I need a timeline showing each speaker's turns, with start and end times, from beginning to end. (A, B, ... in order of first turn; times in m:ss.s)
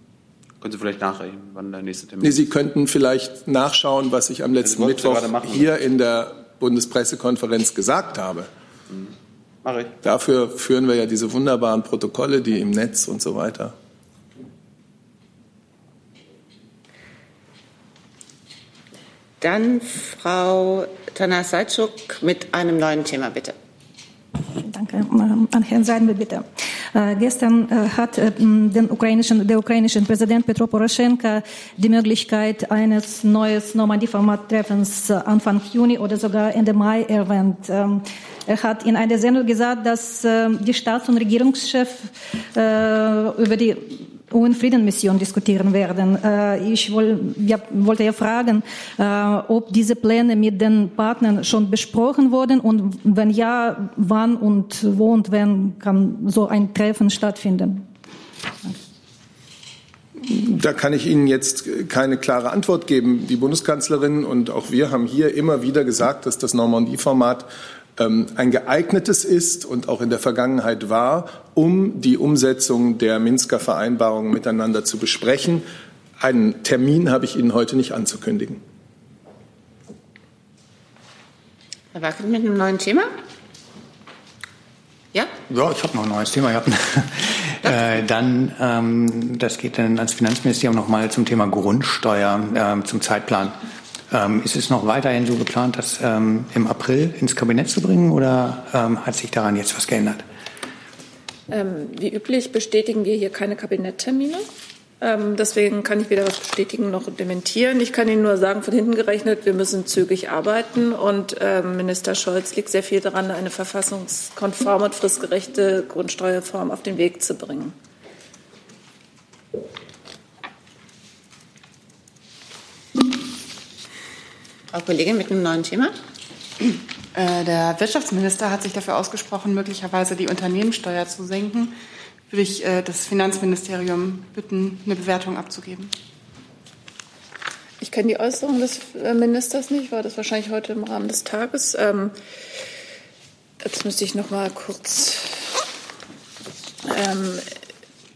0:00.6-0:02.4 A
0:02.2-0:08.5 B
0:04.6-0:05.7 A
0:09.6-0:09.9 A
0:10.0-0:13.7 B
0:19.4-0:23.6 C
0:24.5-0:57.8 D
1:00.2-1:15.6 B
1:16.2-1:18.6 B
1:21.9-1:23.1 C
1:25.5-1:33.6 E
1:34.1-1:40.2 E
1:41.5-1:44.4 F
1:45.0-1:57.7 F
2:04.7-2:05.9 C
2:07.1-2:11.7 G
2:12.3-2:15.9 G
2:17.8-2:22.1 F
2:23.6-2:25.4 F
2:26.8-2:27.4 F